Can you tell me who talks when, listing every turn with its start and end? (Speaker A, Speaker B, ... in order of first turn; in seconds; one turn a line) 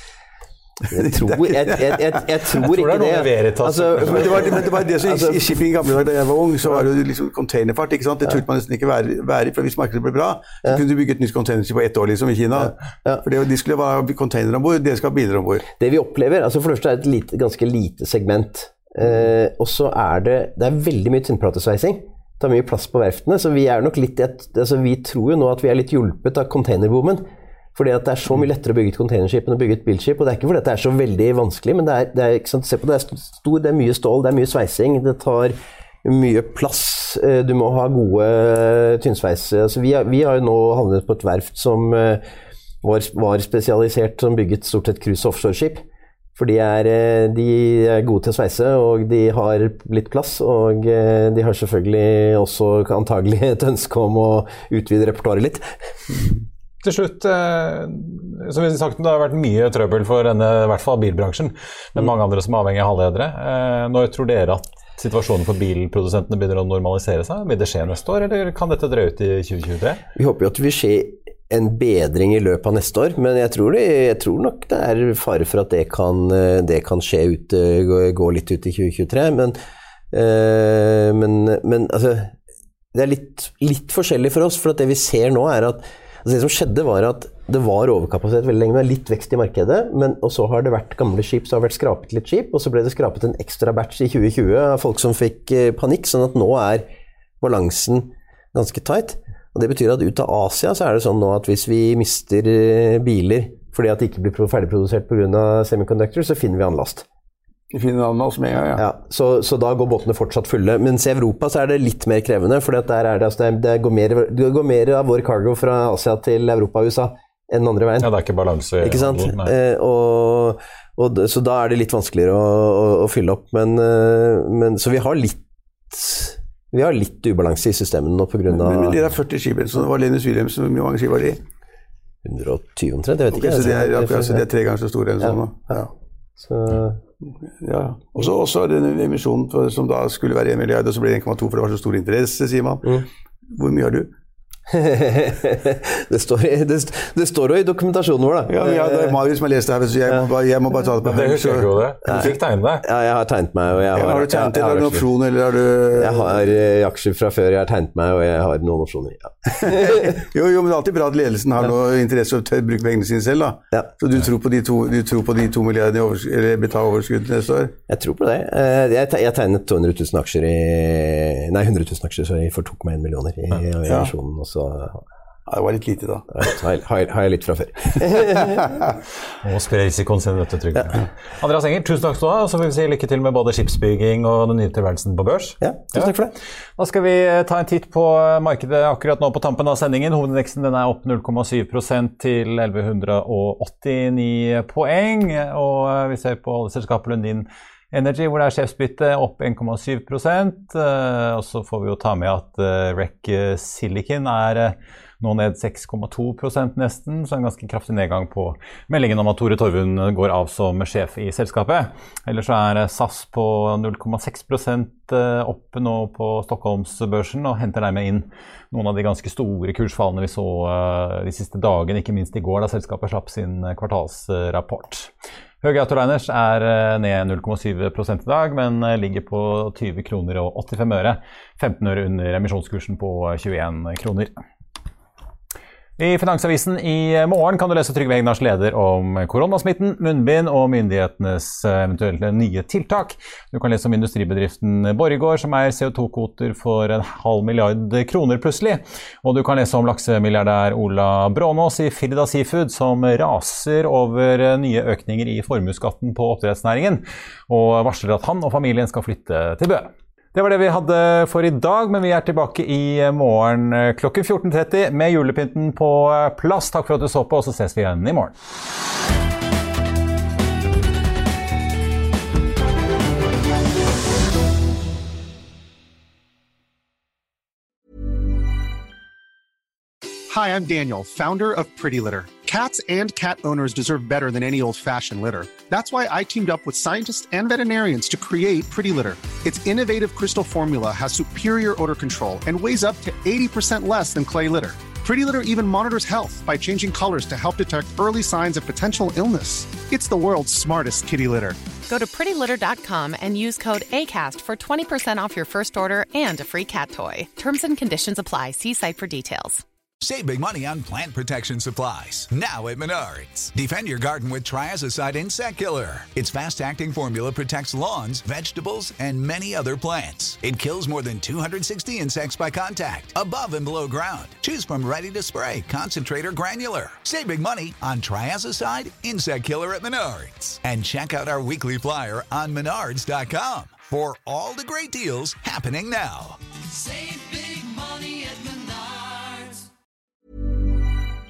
Speaker A: 0.9-5.6
Speaker B: 0.9-2.0
Speaker C: 2.6-4.7
Speaker B: 4.0-15.7
Speaker A: 12.6-13.2
Speaker A: 15.8-42.2
Speaker A: 42.8-45.9
Speaker A: 46.4-56.2
Speaker C: 56.8-70.0
Speaker A: 70.2-79.6
Speaker A: 80.1-82.3
Speaker A: 82.9-96.8
Speaker A: 97.4-107.1
Speaker B: 107.7-108.8
Speaker A: 108.8-118.1
Speaker C: 118.0-119.5
Speaker A: 118.8-129.0
Speaker B: 128.5-131.4
Speaker A: 132.2-134.4
Speaker B: 133.3-135.9
Speaker A: 136.4-137.0
Speaker B: 137.6-144.1
Speaker A: 144.7-149.2
Speaker B: 148.5-152.3
Speaker C: 151.1-152.8
Speaker A: 152.1-155.0
Speaker B: 153.9-156.4
Speaker A: 156.0-160.2
Speaker B: 159.6-167.7
Speaker A: 167.9-175.0
Speaker B: 173.9-174.1
Speaker B: 175.5-176.3
Speaker A: 176.3-178.7
Speaker C: 179.4-186.2
Speaker A: 185.6-186.3
Speaker C: 186.8-225.1
Speaker C: 225.6-234.3
Speaker C: 236.0-268.3
Speaker D: 280.3-301.6
Speaker E: 301.9-309.6
Speaker F: 310.0-336.4